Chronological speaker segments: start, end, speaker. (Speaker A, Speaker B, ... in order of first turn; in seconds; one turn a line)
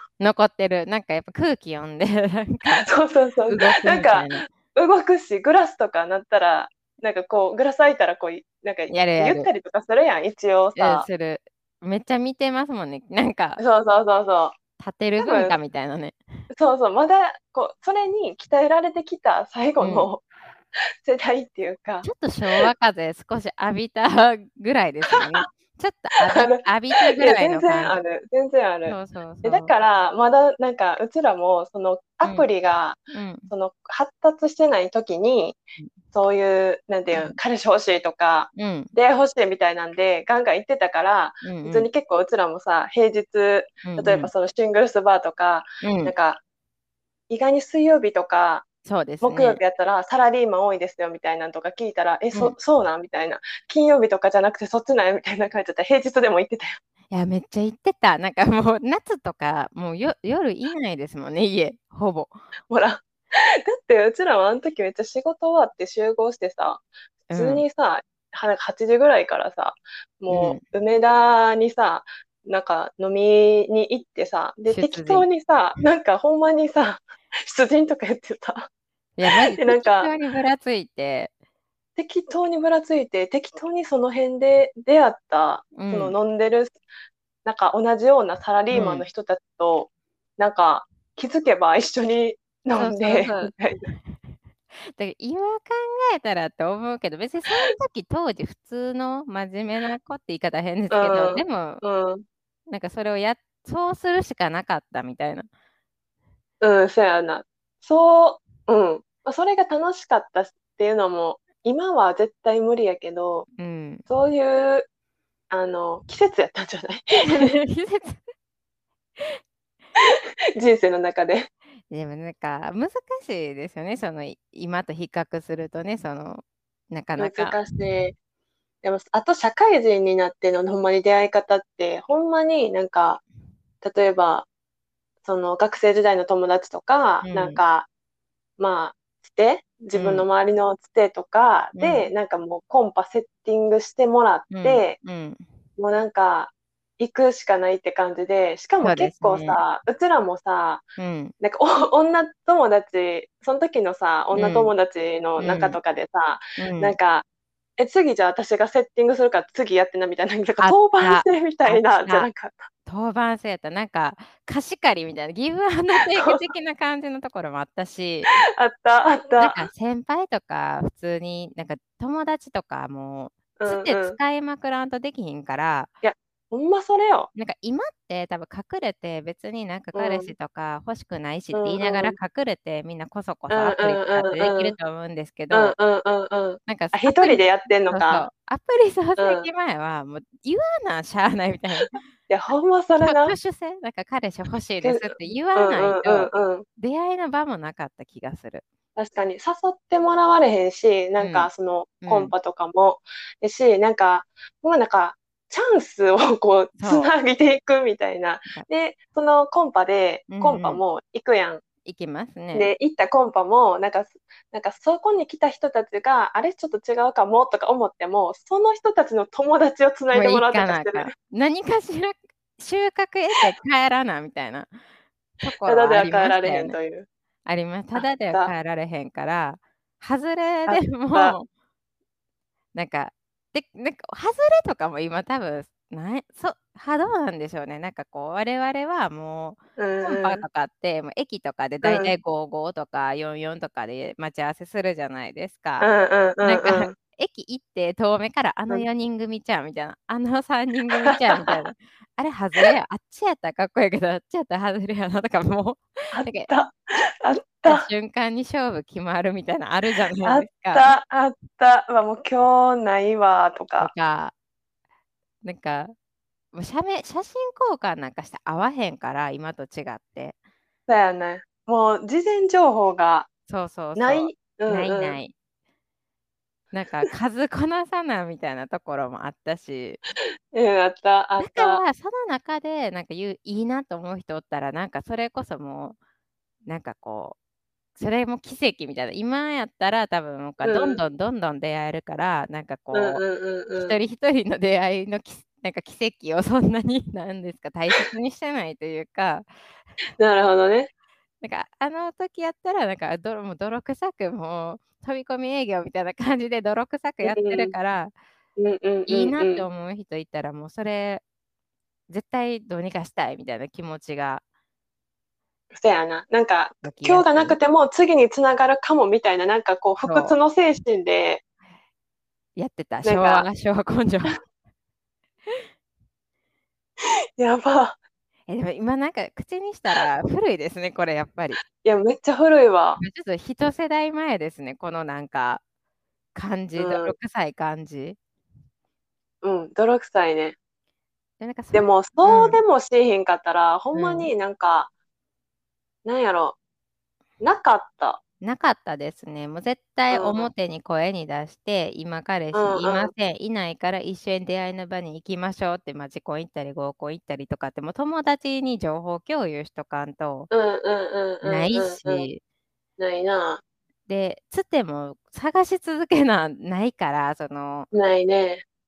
Speaker A: 0.2-2.9
Speaker B: 2.8-11.1
Speaker A: 3.5-4.5
Speaker A: 8.9-9.5
Speaker A: 10.8-13.6
Speaker B: 13.6-14.5
Speaker A: 14.8-16.2
Speaker B: 15.2-15.6
Speaker B: 16.5-20.2
Speaker A: 19.8-20.1
Speaker B: 21.0-22.6
Speaker A: 22.0-28.0
Speaker B: 25.1-25.4
Speaker B: 26.2-35.6
Speaker A: 28.9-29.7
Speaker A: 32.2-32.5
Speaker A: 33.1-33.5
Speaker B: 36.1-46.4
Speaker A: 38.5-38.9
Speaker A: 41.4-41.9
Speaker A: 43.8-44.3
Speaker A: 45.8-46.1
Speaker B: 47.3-48.6
Speaker A: 48.8-49.6
Speaker B: 49.2-56.8
Speaker A: 57.1-62.4
Speaker B: 62.7-78.7
Speaker A: 67.3-67.6
Speaker A: 70.3-70.6
Speaker A: 74.7-75.3
Speaker A: 79.2-81.3
Speaker B: 79.5-80.1
Speaker B: 82.0-86.8
Speaker A: 85.7-86.1
Speaker B: 87.4-93.9
Speaker A: 88.7-89.0
Speaker A: 92.7-94.3
Speaker A: 94.8-101.8
Speaker B: 100.9-102.2
Speaker A: 102.7-105.5
Speaker B: 106.6-113.5
Speaker A: 113.5-114.0
Speaker B: 114.1-114.9
Speaker B: 115.5-117.5
Speaker A: 117.2-118.2
Speaker B: 120.0-121.5
Speaker A: 121.9-127.6
Speaker B: 127.2-128.1
Speaker B: 128.8-133.2
Speaker B: 133.8-134.4
Speaker B: 135.2-137.9
Speaker A: 137.2-137.6
Speaker B: 138.6-145.0
Speaker A: 139.9-140.2
Speaker A: 141.8-142.1
Speaker A: 144.5-145.4
Speaker B: 145.8-150.8
Speaker A: 148.8-149.6
Speaker A: 151.0-151.3
Speaker B: 151.4-157.2
Speaker A: 154.3-154.7
Speaker A: 155.4-155.8
Speaker A: 156.6-156.9
Speaker B: 157.8-162.7
Speaker A: 160.6-162.3
Speaker A: 162.8-168.3
Speaker B: 168.6-169.6
Speaker A: 169.4-175.9
Speaker B: 173.6-174.2
Speaker B: 176.0-177.3
Speaker A: 177.3-185.7
Speaker B: 179.9-180.3
Speaker B: 181.5-182.1
Speaker B: 183.5-184.8
Speaker B: 185.5-188.2
Speaker A: 186.7-191.9
Speaker B: 189.2-189.5
Speaker B: 192.3-193.3
Speaker A: 193.0-198.6
Speaker B: 194.8-196.6
Speaker B: 198.9-211.6
Speaker A: 201.2-201.5
Speaker A: 202.0-202.3
Speaker A: 206.8-207.1
Speaker A: 210.3-210.8
Speaker A: 211.8-212.7
Speaker B: 212.5-221.1
Speaker A: 220.1-224.7
Speaker A: 225.4-226.8
Speaker B: 225.6-227.1
Speaker A: 227.4-231.4
Speaker B: 227.9-228.5
Speaker B: 230.7-231.3
Speaker A: 232.7-245.9
Speaker B: 239.8-240.4
Speaker B: 241.8-242.1
Speaker B: 245.8-246.9
Speaker A: 246.4-256.5
Speaker B: 251.0-251.6
Speaker B: 256.1-257.9
Speaker A: 257.6-260.9
Speaker B: 260.2-263.9
Speaker A: 263.8-264.3
Speaker A: 265.4-265.9
Speaker A: 266.5-270.3
Speaker B: 270.9-273.3
Speaker A: 273.5-275.3
Speaker B: 273.9-275.2
Speaker A: 276.7-280.0
Speaker B: 280.5-281.8
Speaker A: 281.4-285.9
Speaker A: 286.6-287.4
Speaker A: 288.0-293.2
Speaker B: 290.6-291.0
Speaker B: 292.9-293.9
Speaker A: 293.7-299.5
Speaker B: 300.2-300.9
Speaker A: 301.4-308.1
Speaker B: 307.2-307.7
Speaker B: 308.6-309.6
Speaker A: 309.1-311.2
Speaker A: 312.1-314.4
Speaker B: 315.8-321.4
Speaker A: 316.8-317.6
Speaker A: 320.0-320.4
Speaker A: 322.6-324.4
Speaker B: 323.0-323.5
Speaker B: 327.4-328.0
Speaker A: 328.5-331.6
Speaker B: 331.8-333.0
Speaker A: 333.0-335.6
Speaker A: 336.3-338.2
Speaker B: 336.8-337.1
Speaker B: 339.4-340.6
Speaker A: 341.4-342.6
Speaker B: 341.7-344.9
Speaker A: 343.9-344.3
Speaker B: 346.0-346.6
Speaker B: 347.4-348.2
Speaker A: 348.4-360.5
Speaker B: 350.1-350.5
Speaker B: 352.5-353.1
Speaker B: 360.5-362.3
Speaker A: 361.4-362.4
Speaker B: 363.0-363.6
Speaker A: 364.1-367.9
Speaker B: 367.9-368.6